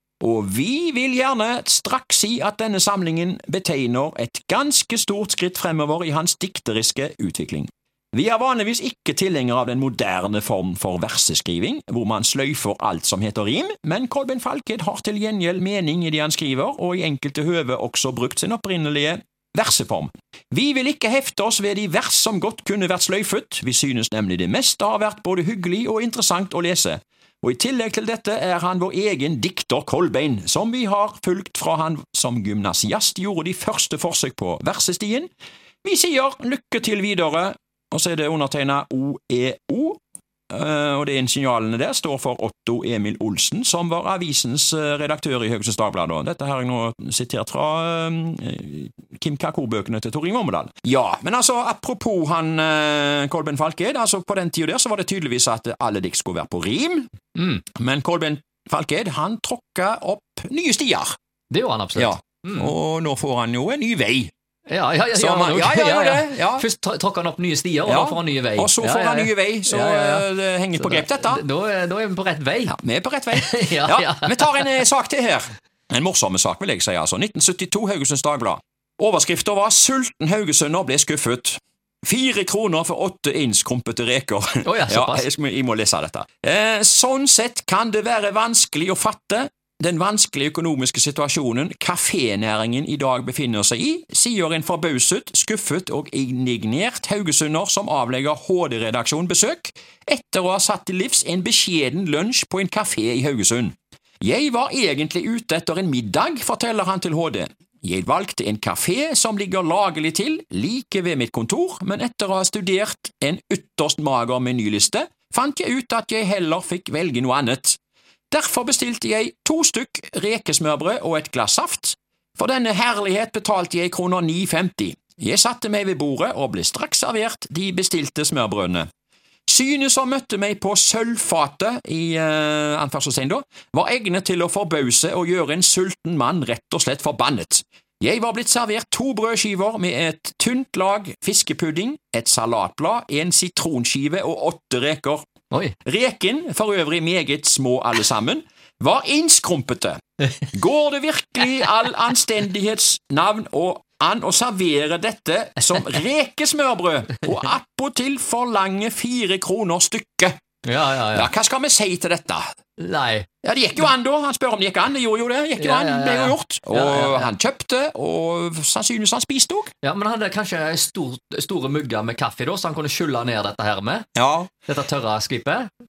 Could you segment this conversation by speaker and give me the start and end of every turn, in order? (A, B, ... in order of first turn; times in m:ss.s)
0:00.2-0:35.3 A
0:35.8-0:57.1 A
0:57.4-0:57.6 B
0:57.7-1:01.1 A
1:01.5-1:02.7 B
1:02.0-1:04.3 A
1:04.7-1:12.8 B
1:05.1-1:06.6 A
1:07.8-1:11.4 A
1:12.7-1:57.8 A
1:13.3-1:14.8 B
1:24.6-1:25.3 B
1:58.3-2:08.9 A
2:09.5-2:25.3 A
2:25.8-2:40.4 A
2:40.6-2:41.3 B
2:41.1-2:42.4 A
2:42.8-2:43.3 B
2:43.4-2:49.7 A
2:45.6-2:47.3 B
2:49.8-2:54.1 B
2:54.2-2:54.5 A
2:54.6-2:55.7 B